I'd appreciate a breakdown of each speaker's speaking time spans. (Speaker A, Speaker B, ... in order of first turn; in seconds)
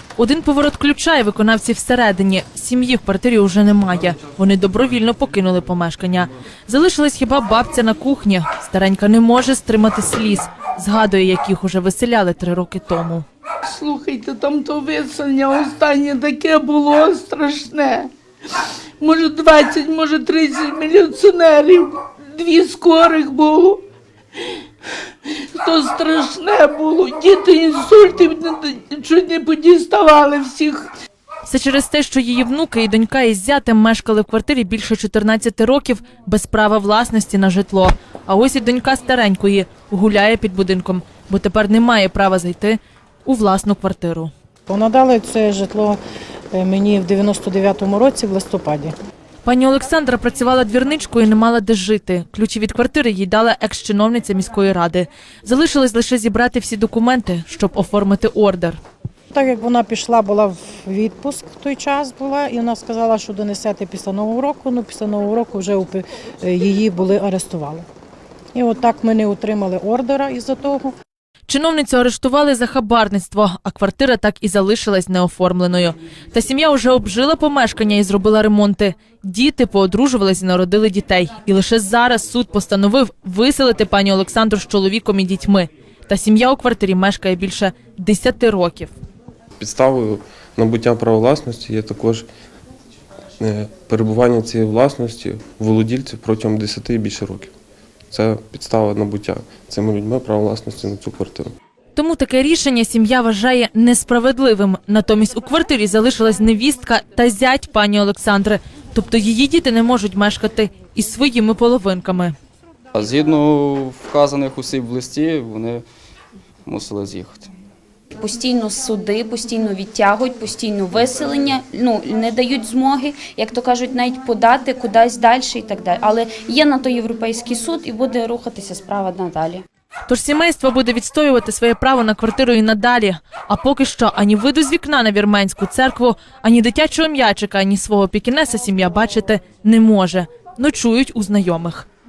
Speaker A: 0.2-13.2, 31.4-44.3, 49.4-58.8, 71.5-88.9, 101.9-112.3, 130.1-141.9
Speaker B: 13.7-18.1, 19.0-23.8, 25.5-30.9
Speaker C: 44.7-46.0, 46.5-48.9, 59.3-67.8, 68.5-70.9
Speaker D: 89.6-92.2, 93.4-97.5, 98.1-101.5
Speaker E: 112.9-115.8, 116.7-117.5
Speaker F: 118.2-129.6